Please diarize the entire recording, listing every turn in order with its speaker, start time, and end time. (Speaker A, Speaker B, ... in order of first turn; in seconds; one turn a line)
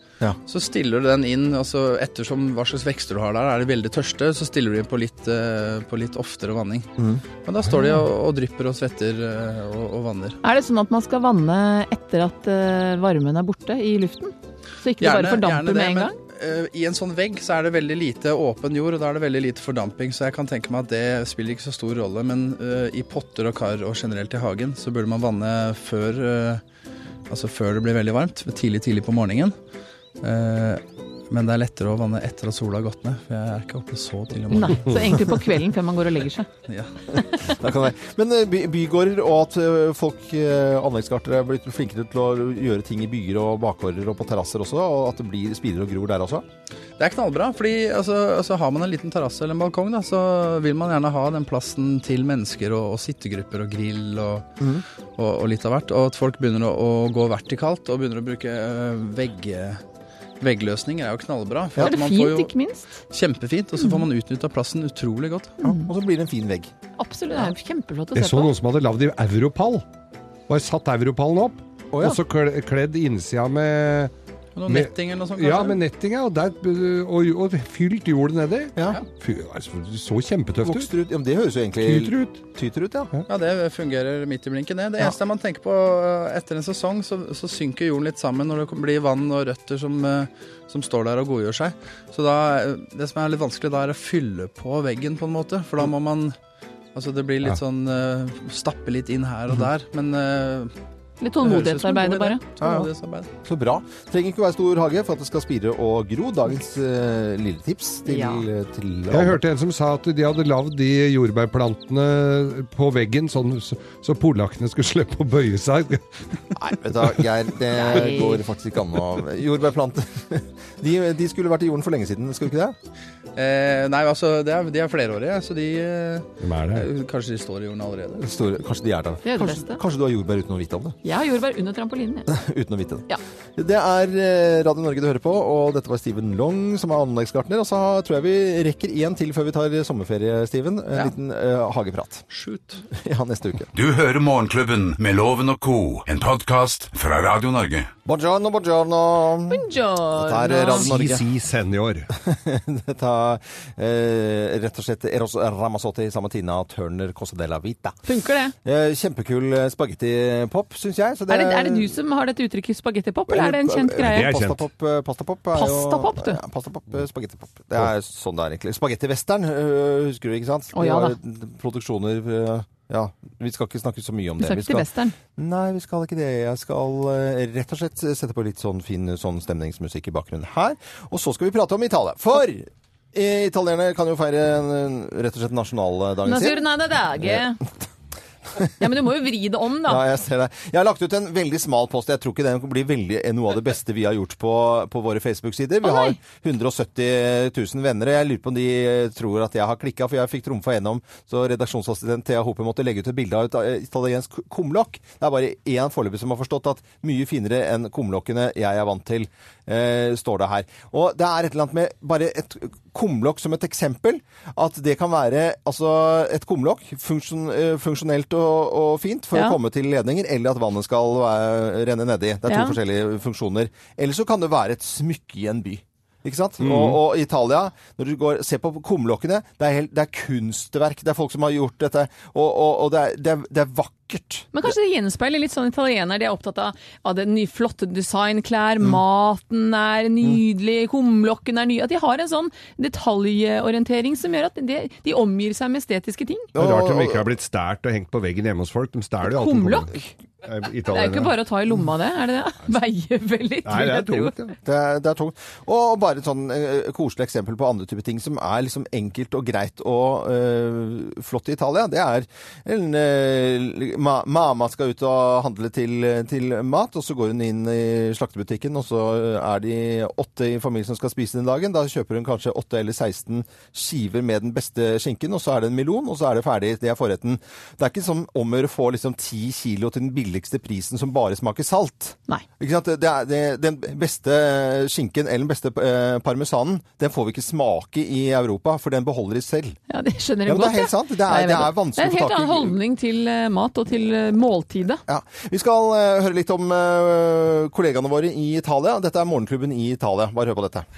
Speaker A: 0.5-6.9
Speaker B: 7.0-7.2
Speaker A: 7.4-10.4
Speaker C: 10.4-16.2
Speaker A: 15.0-26.6
Speaker A: 27.3-29.6
Speaker A: 30.2-35.2
Speaker C: 34.5-36.5
Speaker B: 37.4-46.5
Speaker A: 47.0-54.5
Speaker A: 55.2-59.8
Speaker A: 60.4-62.5
Speaker C: 61.8-62.9
Speaker A: 63.1-65.6
Speaker C: 65.6-65.9
Speaker B: 65.6-66.7
Speaker C: 67.0-68.5
Speaker D: 68.1-69.8
Speaker D: 70.5-74.1
Speaker B: 71.9-72.2
Speaker A: 74.6-75.8
Speaker D: 74.7-80.9
Speaker B: 80.6-83.1
Speaker D: 81.8-82.4
Speaker A: 83.3-96.4
Speaker A: 96.9-100.7
Speaker C: 101.2-102.5
Speaker A: 101.4-103.3
Speaker B: 102.6-102.9
Speaker B: 103.4-109.4
Speaker C: 108.1-108.4
Speaker D: 109.1-116.3
Speaker B: 116.6-122.8
Speaker C: 117.8-118.4
Speaker A: 123.4-128.2
Speaker D: 126.4-126.9
Speaker B: 128.2-131.0
Speaker C: 129.2-129.8
Speaker C: 131.0-132.3
Speaker B: 132.3-142.3
Speaker A: 142.4-142.7
Speaker B: 142.9-143.7
Speaker E: 143.7-147.9
Speaker B: 148.1-151.3
Speaker C: 149.5-150.9
Speaker D: 150.7-152.1
Speaker B: 152.1-158.0
Speaker C: 158.1-158.5
Speaker B: 158.6-162.0
Speaker C: 161.3-164.3
Speaker B: 163.3-187.5
Speaker D: 164.0-164.6
Speaker C: 165.6-166.4
Speaker C: 170.7-171.2
Speaker C: 174.4-175.2
Speaker C: 186.2-187.6
Speaker C: 188.8-190.0
Speaker B: 189.8-234.7
Speaker C: 195.8-196.2
Speaker C: 222.5-222.8
Speaker D: 226.6-227.0
Speaker C: 234.5-246.5
Speaker B: 246.5-247.3
Speaker D: 246.6-251.4
Speaker C: 249.3-250.0
Speaker C: 250.9-254.4
Speaker D: 253.7-254.6
Speaker B: 254.6-289.8
Speaker C: 289.9-295.0
Speaker B: 290.5-292.8
Speaker B: 295.1-300.9